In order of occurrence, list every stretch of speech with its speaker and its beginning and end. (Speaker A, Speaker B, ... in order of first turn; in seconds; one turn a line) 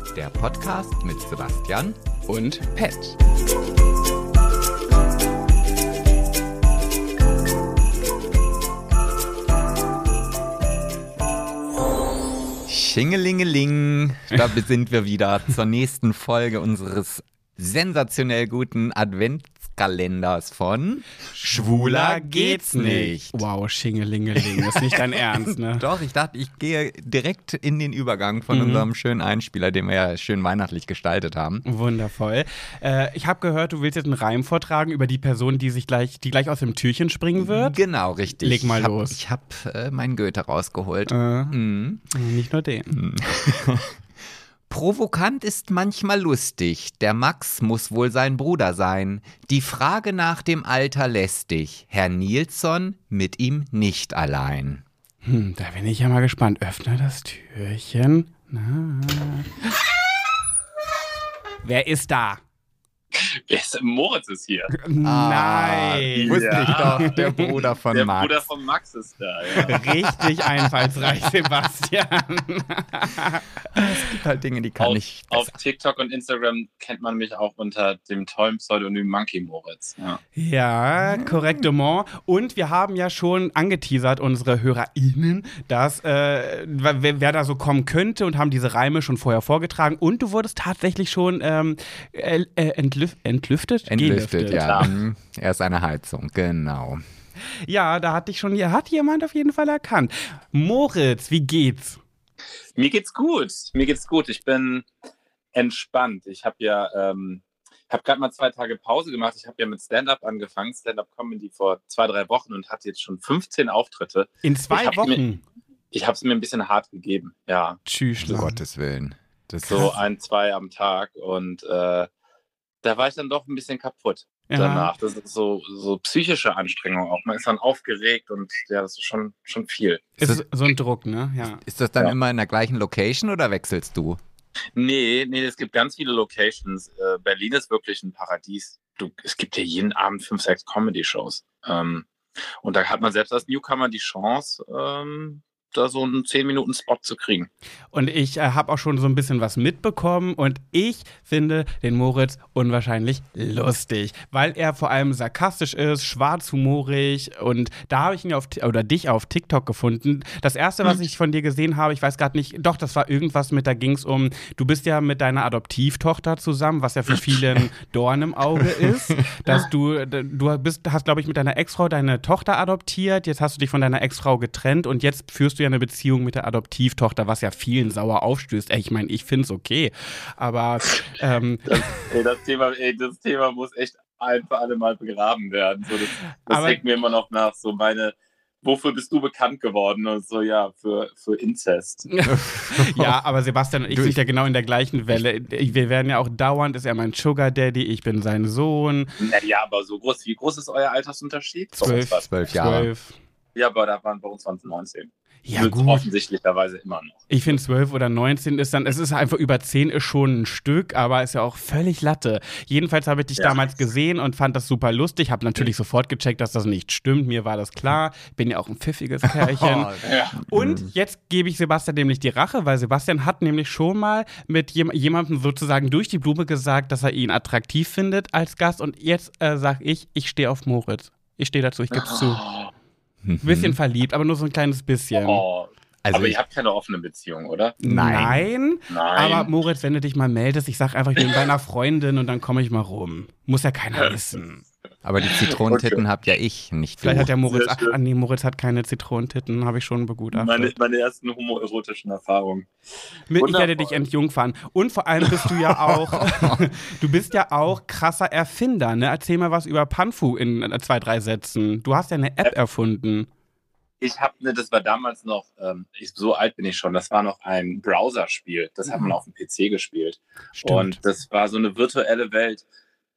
Speaker A: 0.1-2.0
Speaker B: 2.2-3.2
Speaker A: 12.7-23.4
Speaker B: 21.4-25.9
Speaker A: 25.7-31.6
Speaker B: 28.5-28.9
Speaker B: 31.6-39.2
Speaker A: 37.4-42.0
Speaker B: 41.1-41.6
Speaker B: 42.1-43.0
Speaker A: 42.9-43.9
Speaker A: 44.7-54.8
Speaker B: 55.2-59.5
Speaker B: 61.6-62.4
Speaker C: 63.1-64.7
Speaker B: 64.7-67.5
Speaker A: 65.0-68.5
Speaker C: 66.1-67.2
Speaker C: 67.9-69.8
Speaker B: 69.6-73.9
Speaker A: 73.7-75.5
Speaker C: 74.8-80.2
Speaker B: 80.3-94.9
Speaker A: 93.9-97.0
Speaker C: 94.5-94.9
Speaker B: 97.7-102.0
Speaker C: 102.8-104.9
Speaker C: 105.5-115.2
Speaker B: 114.4-115.4
Speaker C: 115.9-117.8
Speaker B: 117.8-118.6
Speaker A: 118.2-120.0
Speaker C: 119.6-122.1
Speaker C: 122.8-130.1
Speaker B: 124.5-124.9
Speaker B: 130.2-131.6
Speaker A: 131.6-134.2
Speaker C: 134.8-142.1
Speaker C: 142.6-147.5
Speaker B: 147.9-181.8
Speaker C: 181.7-192.1
Speaker B: 186.3-186.8
Speaker B: 192.1-199.1
Speaker A: 192.3-193.2
Speaker A: 193.9-194.2
Speaker C: 199.2-202.3
Speaker B: 201.7-203.2
Speaker A: 201.9-202.9
Speaker C: 203.5-207.6
Speaker B: 205.4-206.1
Speaker B: 207.3-219.9
Speaker C: 213.4-213.6
Speaker A: 219.3-220.9
Speaker C: 220.0-220.4
Speaker B: 220.5-232.4
Speaker C: 231.9-232.7
Speaker A: 233.2-233.8
Speaker B: 233.4-235.4
Speaker C: 235.1-237.8
Speaker A: 236.0-236.4
Speaker B: 237.8-244.6
Speaker A: 237.8-238.5
Speaker C: 238.9-239.5
Speaker A: 245.0-247.3
Speaker C: 245.2-246.0
Speaker B: 247.0-250.7
Speaker C: 247.5-247.9
Speaker C: 250.3-252.7
Speaker B: 253.3-263.3
Speaker C: 253.4-254.0
Speaker C: 264.0-272.6
Speaker A: 270.6-270.9